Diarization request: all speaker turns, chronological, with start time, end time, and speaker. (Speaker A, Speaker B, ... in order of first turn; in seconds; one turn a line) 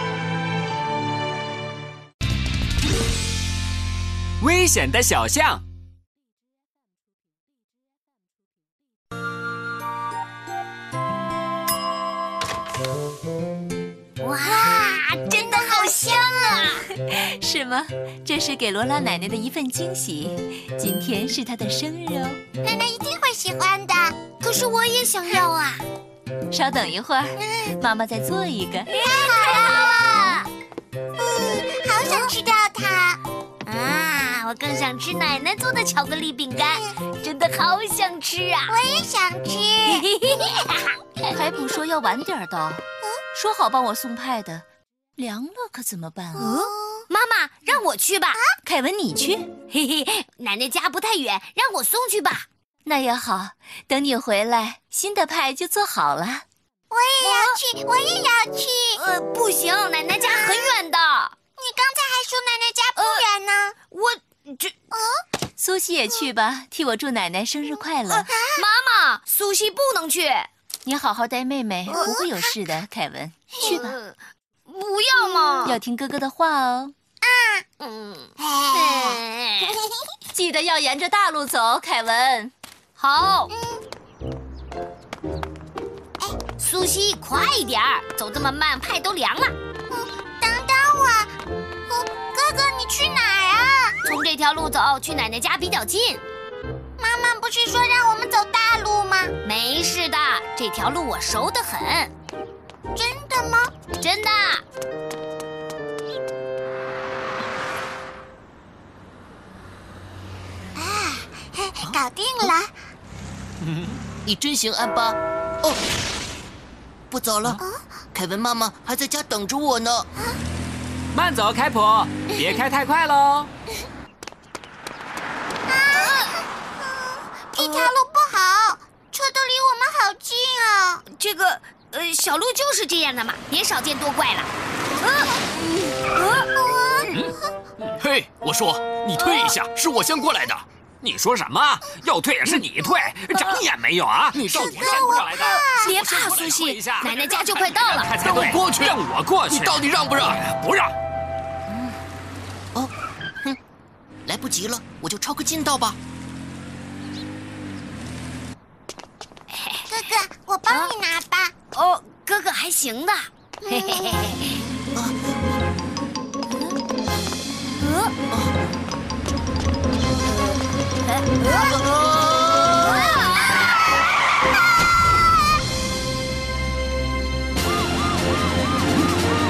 Speaker A: 4.4-5.6
Speaker B: 14.2-16.9
Speaker C: 15.3-16.5
Speaker D: 16.9-22.4
Speaker C: 22.6-24.2
Speaker B: 24.3-25.8
Speaker D: 26.5-28.9
Speaker C: 27.4-27.7
Speaker C: 28.9-30.0
Speaker B: 29.1-30.5
Speaker C: 31.2-33.2
Speaker B: 32.0-32.3
Speaker B: 33.7-38.8
Speaker C: 36.6-37.0
Speaker C: 38.7-40.1
Speaker B: 39.9-41.3
Speaker D: 41.3-44.6
Speaker D: 45.2-46.5
Speaker B: 46.4-48.4
Speaker C: 46.4-47.0
Speaker D: 48.6-49.5
Speaker B: 49.7-52.5
Speaker D: 52.9-56.5
Speaker C: 56.9-59.0
Speaker B: 57.2-57.6
Speaker B: 58.9-61.4
Speaker C: 60.2-60.7
Speaker C: 61.6-63.8
Speaker B: 63.0-63.2
Speaker B: 63.9-64.7
Speaker C: 64.9-65.2
Speaker D: 65.6-68.3
Speaker B: 68.1-70.5
Speaker C: 68.3-68.6
Speaker D: 70.9-73.9
Speaker B: 71.9-72.1
Speaker C: 71.9-72.4
Speaker B: 73.5-75.8
Speaker C: 73.6-73.9
Speaker C: 75.2-75.6
Speaker D: 75.7-76.9
Speaker C: 77.2-77.7
Speaker B: 77.8-79.8
Speaker C: 78.7-79.2
Speaker D: 78.7-79.1
Speaker D: 80.3-82.5
Speaker B: 83.0-83.5
Speaker C: 83.5-83.8
Speaker B: 86.6-89.5
Speaker C: 89.9-91.3
Speaker C: 91.9-94.0
Speaker B: 94.0-96.2
Speaker C: 97.0-99.3
Speaker B: 99.4-102.1
Speaker C: 102.9-103.7
Speaker B: 104.0-104.6
Speaker C: 110.8-112.7
Speaker A: 113.6-114.0
Speaker E: 114.2-115.8
Speaker E: 117.1-117.6
Speaker E: 118.1-120.1
Speaker A: 121.1-123.5
Speaker C: 125.7-126.4
Speaker B: 125.9-126.3
Speaker C: 127.5-131.0
Speaker B: 127.6-127.9
Speaker B: 131.1-136.5
Speaker C: 136.6-137.1
Speaker F: 138.0-140.6
Speaker A: 139.1-139.8
Speaker B: 139.2-139.5
Speaker A: 141.0-149.9
Speaker E: 144.4-145.0
Speaker C: 144.5-146.0
Speaker B: 145.4-148.1
Speaker F: 148.2-150.9
Speaker A: 150.6-150.8
Speaker E: 154.3-156.0
Speaker B: 159.5-160.1
Speaker C: 159.9-161.5
Speaker B: 160.7-160.9
Speaker B: 161.7-164.7
Speaker C: 163.6-164.3
Speaker B: 167.8-168.1
Speaker E: 168.3-168.6
Speaker B: 171.1-171.7
Speaker E: 171.5-173.1
Speaker B: 172.7-173.6